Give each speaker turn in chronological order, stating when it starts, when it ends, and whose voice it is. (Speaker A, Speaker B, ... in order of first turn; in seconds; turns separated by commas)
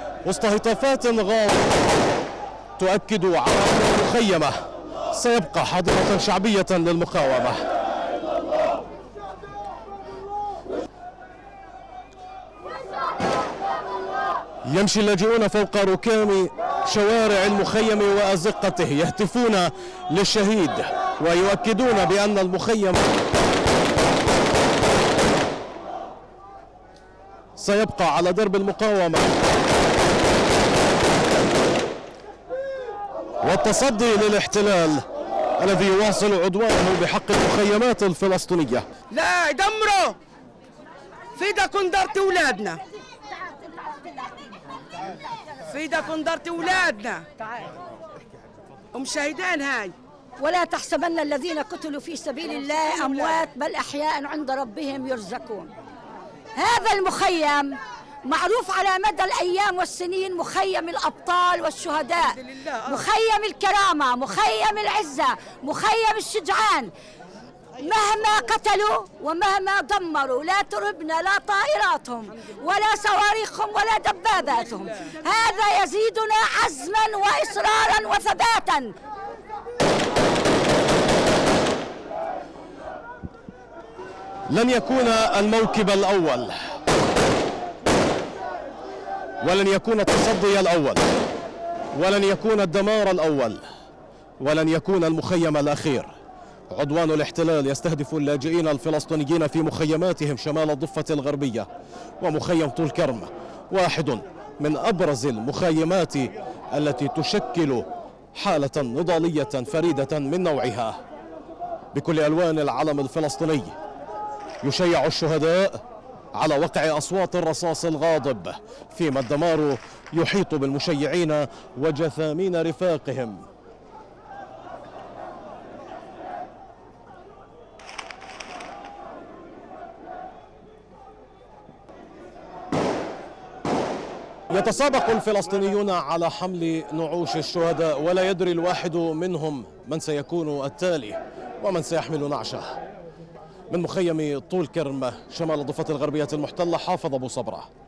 Speaker A: 0.2-1.7, Speaker A: 2.8-4.6, Speaker A: 5.1-7.6, Speaker A: 14.7-23.0, Speaker A: 27.6-29.3, Speaker A: 33.4-35.0, Speaker A: 35.6-38.9, Speaker B: 39.1-40.2, Speaker B: 41.4-42.8, Speaker B: 45.6-47.3, Speaker B: 48.9-50.0, Speaker C: 50.4-55.7, Speaker C: 56.6-66.9, Speaker B: 62.5-62.9, Speaker C: 67.8-79.0, Speaker A: 84.5-86.7, Speaker A: 89.4-91.0, Speaker A: 92.0-93.6, Speaker A: 94.4-96.1, Speaker A: 96.7-101.7, Speaker A: 102.2-111.0, Speaker A: 111.9-113.8, Speaker A: 114.6-115.8, Speaker A: 116.3-123.4, Speaker A: 134.5-142.8, Speaker A: 143.7-147.7